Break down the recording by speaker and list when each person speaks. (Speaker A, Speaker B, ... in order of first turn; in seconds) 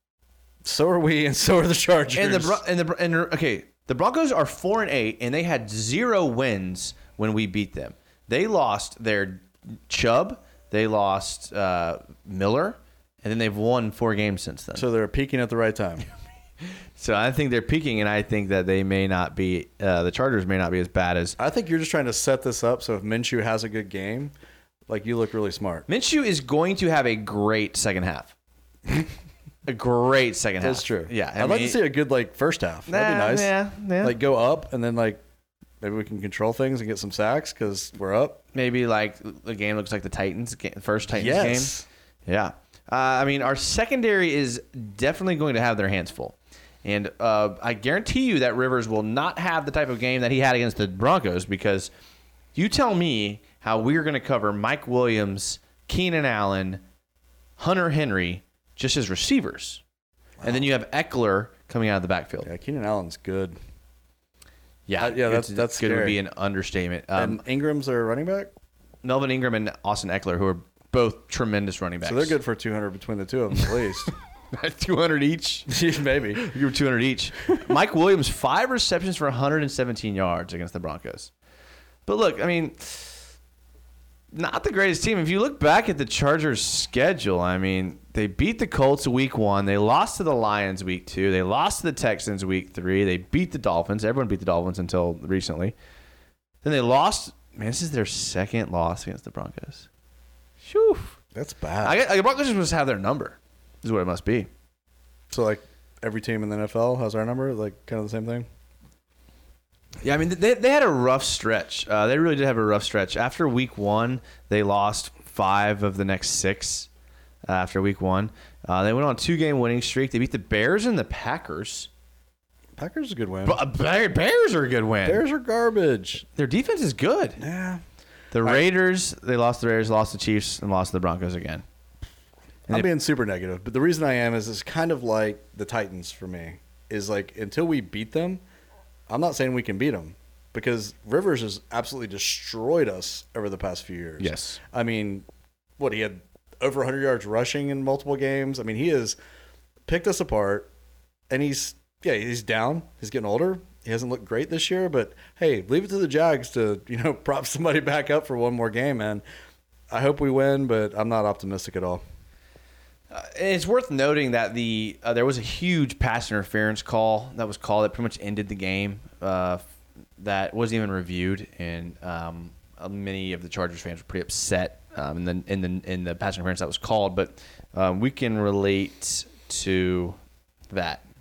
Speaker A: 0.6-2.6, 14.8-16.1, 21.4-24.3, 24.9-25.9, 30.6-35.2, 35.8-38.4, 41.1-41.9, 62.4-63.6, 65.0-66.2, 67.2-68.5, 72.0-74.1, 75.7-76.4, 101.3-102.0, 105.3-108.5, 122.8-123.6, 125.0-126.2, 127.4-127.8, 132.7-138.4, 139.1-145.2, 145.8-149.2, 149.8-150.7, 151.3-159.2, 159.9-162.0
Speaker B: 2.1-14.8, 16.9-21.4, 25.9-28.3, 29.6-31.8, 32.9-34.1, 38.5-41.7, 42.2-51.9, 52.5-56.8, 57.6-59.8, 60.4-62.5, 64.9-67.4, 69.0-72.4, 74.5-75.7, 76.3-81.3, 82.0-83.2, 84.3-95.7, 96.6-99.9, 100.6-101.1, 101.8-104.5, 110.0-116.9, 117.5-121.9, 123.4-125.2, 126.3-127.4, 128.3-131.6, 144.2-144.6, 163.1-169.6, 170.2-180.2, 180.7-181.0